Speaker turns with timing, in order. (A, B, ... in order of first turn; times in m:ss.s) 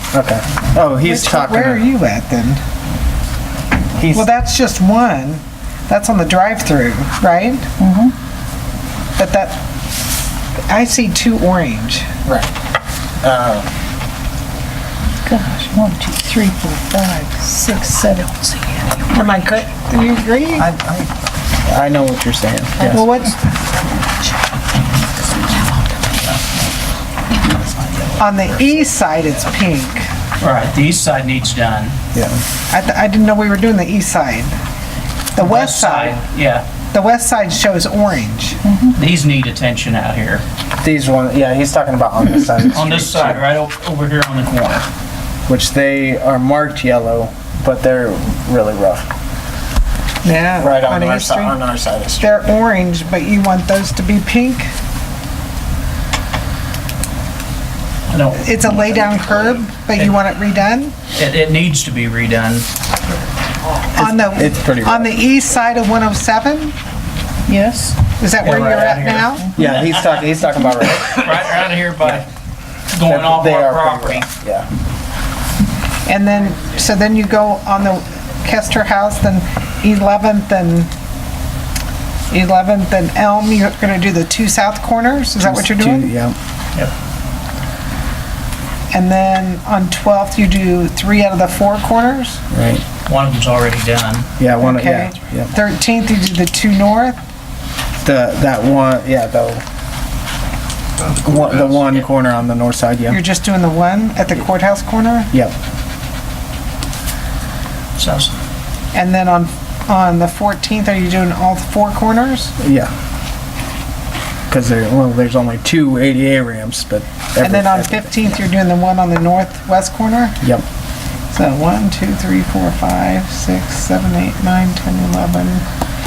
0:00.1-0:01.8 A
0:01.0-0:02.6 B
0:04.0-0:04.3 A
0:04.1-0:07.6 B
0:07.8-0:08.1 C
0:09.2-0:09.6 B
0:10.7-0:12.1 B
0:13.2-0:13.7 A
0:15.2-0:19.1 C
0:19.1-0:20.7 B
0:20.6-0:21.1 A
0:21.6-0:23.0 A
0:22.8-0:23.4 B
0:27.7-0:28.2 D
0:28.2-0:30.1 B
0:30.4-0:32.0 D
0:32.1-0:32.4 A
0:32.7-0:34.6 B
0:35.3-0:36.2 B
0:35.4-0:36.6 D
0:36.9-0:38.6 B
0:38.6-0:39.0 C
0:38.9-0:40.4 D
0:40.8-0:43.4 A
0:42.7-0:44.8 D
0:45.5-0:49.1 A
0:50.2-0:51.6 B
0:50.6-0:52.4 A
0:52.2-0:54.7 B
0:58.1-0:58.4 D
0:58.3-1:00.9 B
1:01.1-1:02.7 D
1:03.9-1:06.7 B
1:04.0-1:05.1 A
1:07.5-1:08.0 C
1:08.2-1:09.5 B
1:08.4-1:10.0 D
1:09.5-1:11.5 A
1:11.1-1:12.3 D
1:12.9-1:14.3 D
1:13.0-1:14.7 A
1:16.0-1:20.9 B
1:22.3-1:26.1 B
1:25.4-1:26.4 A
1:28.9-1:32.4 B
1:32.5-1:32.8 A
1:33.0-1:34.3 D
1:34.4-1:35.5 A
1:34.6-1:37.2 B
1:38.0-1:39.6 A
1:41.2-1:43.2 A
1:43.1-1:45.3 B
1:48.0-1:48.4 D
1:48.9-1:52.5 B
1:52.6-1:52.9 A
1:54.5-1:58.2 A
1:57.4-2:00.4 B
2:01.3-2:05.6 B